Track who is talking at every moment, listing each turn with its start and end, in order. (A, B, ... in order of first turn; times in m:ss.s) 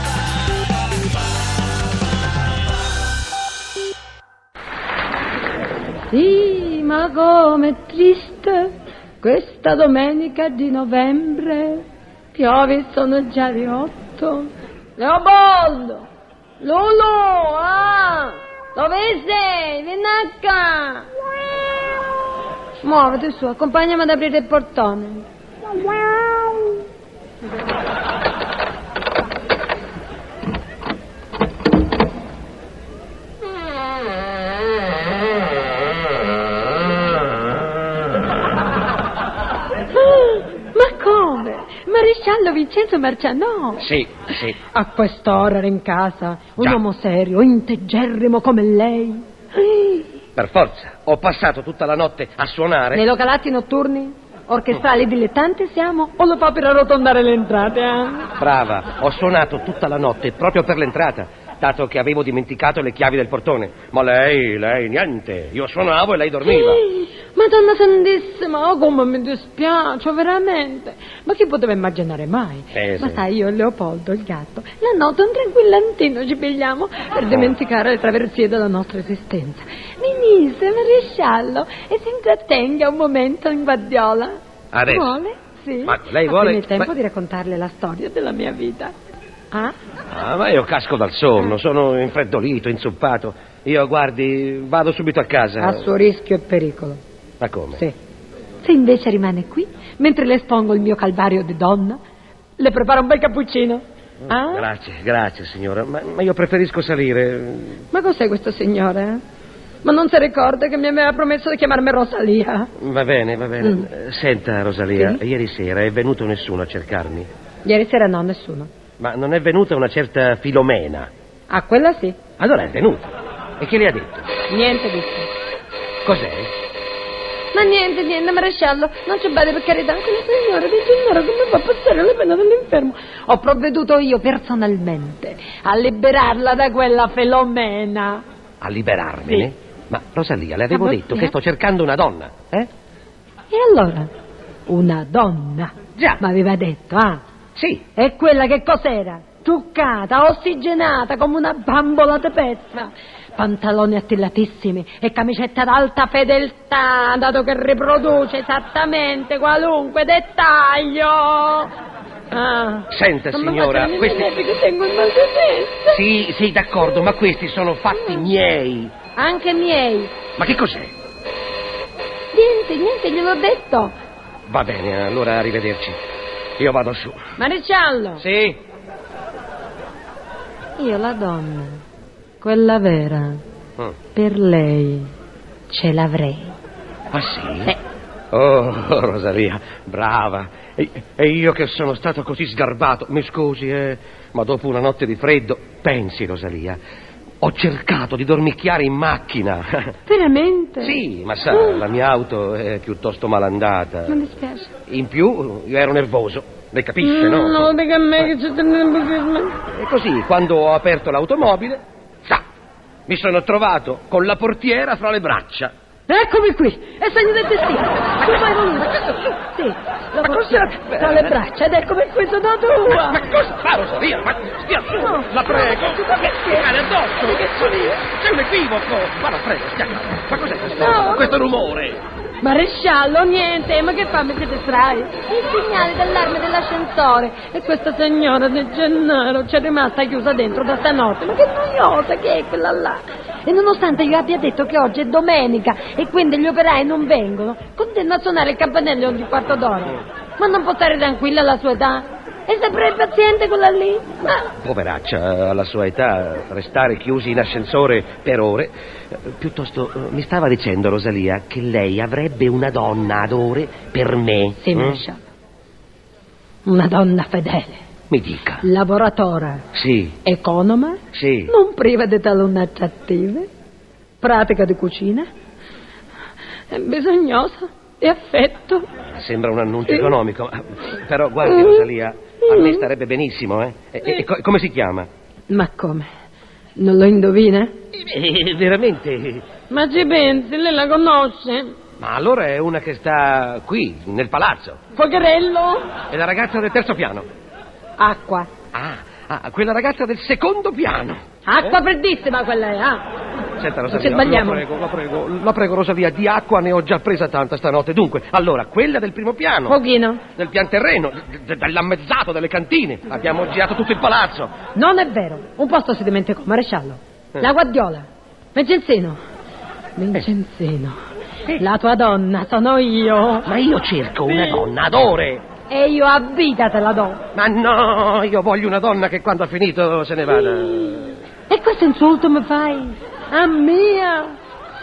0:06.1-0:16.0 A
0:16.6-0:21.1 A
0:22.8-0:25.3 A
0:39.9-0:43.8 A
0:43.8-0:44.6 B
0:44.7-0:50.1 A
0:50.4-0:53.0 B
0:52.9-0:58.3 A
0:58.4-1:06.8 B
1:06.4-1:28.9 A
1:12.7-1:13.2 B
1:17.3-1:17.5 B
1:24.7-1:25.1 B
1:25.8-1:26.9 B
1:30.1-1:35.9 B
1:35.6-1:37.0 A
1:37.4-1:37.8 B
1:38.6-1:42.0 A
1:42.6-1:44.7 A
1:44.2-1:47.8 B
1:47.9-1:49.2 A
1:49.8-1:52.7 A
1:52.8-1:57.3 B
1:53.6-1:53.8 A
1:54.9-1:55.2 A
1:57.6-1:58.7 A
1:59.0-2:01.1 B
2:01.5-2:02.2 A
2:02.4-2:04.3 B
2:04.5-2:05.3 A
2:06.0-2:06.5 B
2:07.5-2:18.2 A
2:18.6-2:22.7 B
2:20.7-2:21.3 A
2:23.5-2:24.1 A
2:24.7-2:27.2 A
2:26.0-2:26.2 B
2:27.6-2:27.8 B
2:27.9-2:41.7 A
2:42.3-2:46.0 A
2:42.9-2:44.4 B
2:45.9-2:48.9 B
2:49.2-2:50.2 A
2:50.4-2:50.9 B
2:52.3-2:53.9 A
2:54.5-2:56.0 B
2:56.6-2:57.2 B
2:57.4-2:58.2 A
2:58.2-2:58.6 B
3:00.8-3:01.8 A
3:02.4-3:03.4 A
3:04.1-3:05.1 A
3:05.7-3:06.6 A
3:07.1-3:07.7 B
3:08.3-3:16.8 B
3:17.4-3:20.0 B
3:20.1-3:21.0 A
3:20.8-3:24.2 B
3:21.5-3:21.8 A
3:24.1-3:24.7 A
3:24.9-3:28.3 B
3:27.0-3:29.6 A
3:29.7-3:32.4 B
3:33.1-3:35.7 B
3:36.1-3:43.2 A
3:38.2-3:39.3 B
3:40.2-3:41.4 B
3:42.9-3:52.0 B
3:45.0-3:48.0 A
3:50.7-3:51.4 A
3:52.4-4:14.5 A
4:14.3-4:25.0 B
4:24.6-4:25.2 A
4:26.6-4:27.8 A
4:28.1-4:28.6 B
4:28.6-4:29.6 A
4:29.7-4:30.2 B
4:30.2-4:33.5 A
4:31.1-4:31.5 B
4:34.2-4:35.3 A
4:36.7-4:38.9 A
4:39.0-4:45.1 B
4:39.9-4:40.1 A
4:41.4-4:41.8 A
4:42.4-4:42.8 A
4:45.5-4:46.1 A
4:46.8-4:47.7 A
4:47.9-4:49.5 B
4:49.7-4:51.8 A
4:52.0-4:54.8 B
4:54.9-4:55.9 A
4:56.1-4:57.3 B
4:58.0-4:58.5 A
4:58.7-5:01.8 B
5:01.4-5:03.0 A
5:03.6-5:09.8 B
5:03.9-5:04.6 A
5:09.7-5:10.2 A
5:10.4-5:14.5 B
5:14.7-5:19.2 A
5:20.0-5:21.0 A
5:21.6-5:23.5 A
5:23.4-5:25.4 B
5:24.3-5:24.6 A
5:25.7-5:27.2 A
5:27.3-5:31.2 B
5:31.5-5:34.4 A